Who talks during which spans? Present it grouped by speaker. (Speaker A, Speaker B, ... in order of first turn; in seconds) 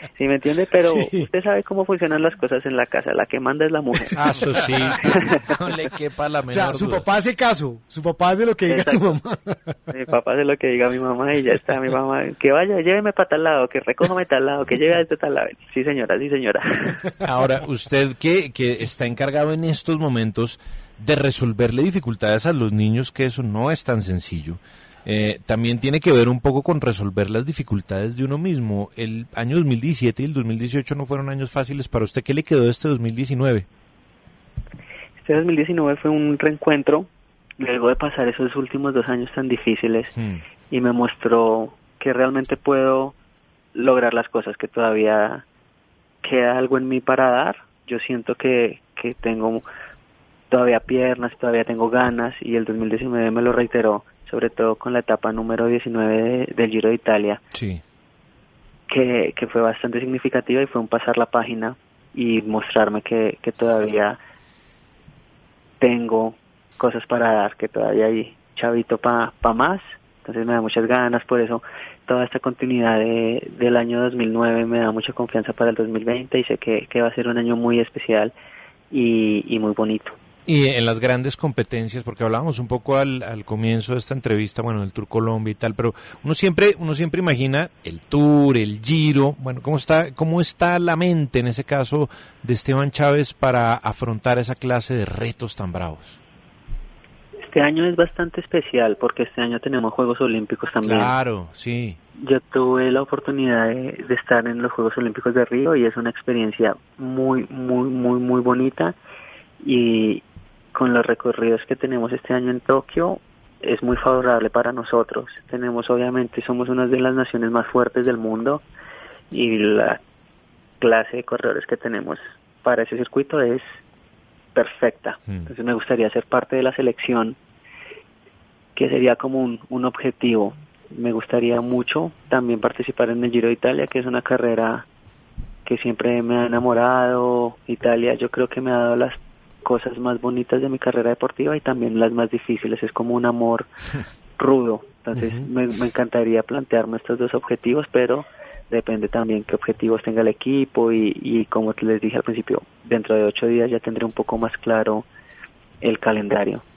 Speaker A: 0.2-4.2, 8.7-9.2, 9.9-17.0, 35.2-40.1, 40.7-43.1, 43.7-45.4, 46.2-49.6, 50.5-57.4, 58.9-64.2, 65.8-78.3, 78.9-80.1, 97.4-101.1, 102.2-109.0, 109.6-110.2, 110.7-118.6, 119.3-120.0, 120.8-123.7, 124.5-127.3, 128.7-134.8, 135.7-143.7, 144.4-155.0, 155.8-156.6
Speaker B: 0.8-1.3, 6.5-9.7
Speaker C: 4.1-7.1, 17.2-33.7, 40.1-40.4, 57.5-57.8, 80.5-96.2, 100.8-102.0